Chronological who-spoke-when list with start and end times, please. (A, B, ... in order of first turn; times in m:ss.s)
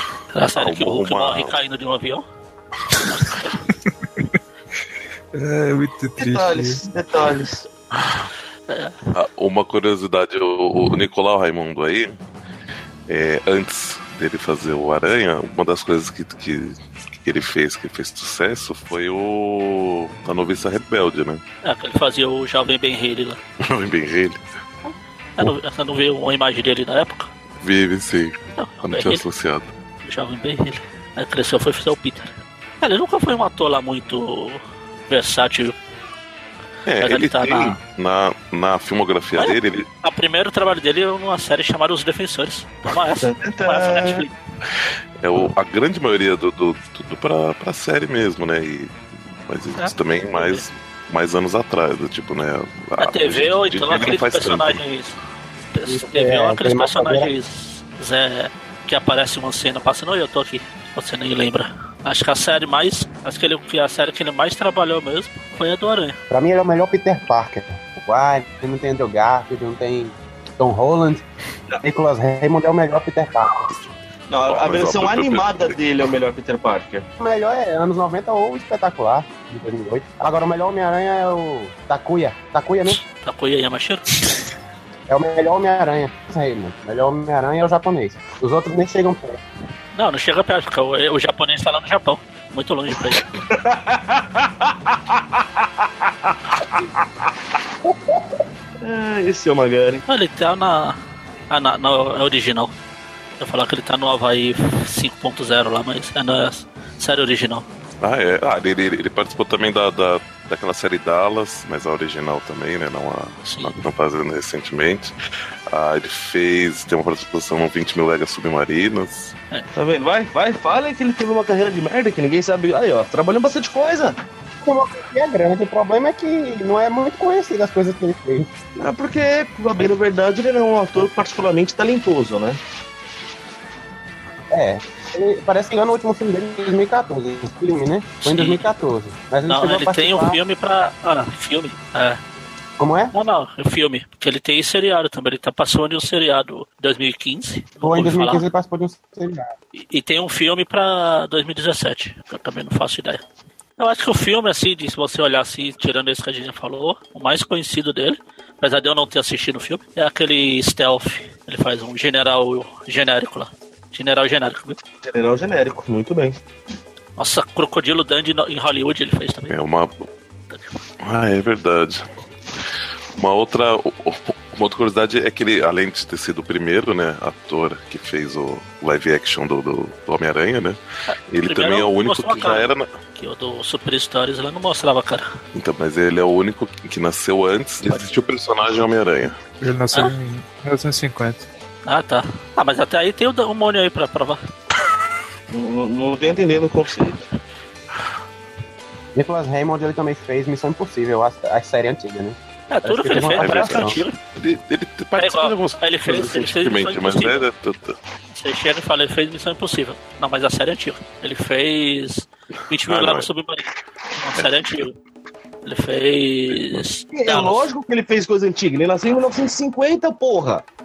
0:00.3-0:02.2 A
0:00.5-0:01.6 B
0:03.0-0:03.6 A
0:05.3-0:06.8 C
0:06.2-0:07.7 D
0:08.0-0:08.3 B
0:08.7-0:09.0 A
0:09.1-0:12.2 B
0:13.1-0:21.4 B
0:21.6-0:23.4 A
0:23.6-0:24.5 B
0:24.9-0:27.3 A
0:27.6-0:29.7 B
0:28.6-0:29.2 A
0:30.0-0:35.8 A
0:36.9-0:39.9 B
0:37.0-0:37.8 A
0:39.4-0:44.4 A
0:43.2-0:44.2 D
0:45.2-0:49.0 B
0:49.5-0:54.8 B
0:49.8-0:50.7 A
0:53.0-0:55.2 A
0:55.7-1:06.2 A
0:55.9-0:57.3 E
1:06.3-1:11.2 E
1:11.8-1:13.7 E
1:14.3-1:17.0 D
1:14.5-1:15.8 B
1:17.2-1:23.0 E
1:22.9-1:24.2 A
1:25.1-1:29.4 E
1:30.0-1:33.2 A
1:33.5-1:34.5 D
1:36.6-1:36.9 D
1:38.8-1:40.0 D
1:40.1-1:41.0 A
1:41.5-1:42.7 A
1:43.4-1:47.7 A
1:48.0-1:55.2 B
1:53.4-1:53.8 A
1:55.7-1:59.3 B
1:59.8-2:04.2 D
2:04.6-2:08.5 E
2:08.8-2:12.6 D
2:14.5-2:20.4 E
2:18.2-2:18.6 A
2:19.5-2:22.2 A
2:22.8-2:23.1 E
2:23.1-2:28.5 A
2:27.8-2:29.5 E
2:29.8-2:33.2 A
2:33.8-2:44.8 A
2:45.0-2:46.4 D
2:47.2-2:49.6 A
2:49.5-2:50.0 B
2:51.0-2:52.1 B
2:53.2-3:00.8 B
3:01.1-3:05.3 A
3:01.3-3:02.9 B
3:05.6-3:09.4 B
3:07.8-3:08.1 A
3:09.6-3:11.5 C
3:11.9-3:14.4 A
3:15.5-3:17.2 D
3:19.2-3:24.0 E
3:22.7-3:24.2 A
3:23.2-3:28.0 B
3:25.2-3:27.5 A
3:28.3-3:35.0 A
3:32.9-3:33.3 B
3:34.4-3:34.7 B
3:35.6-3:37.7 A
3:37.1-3:40.6 D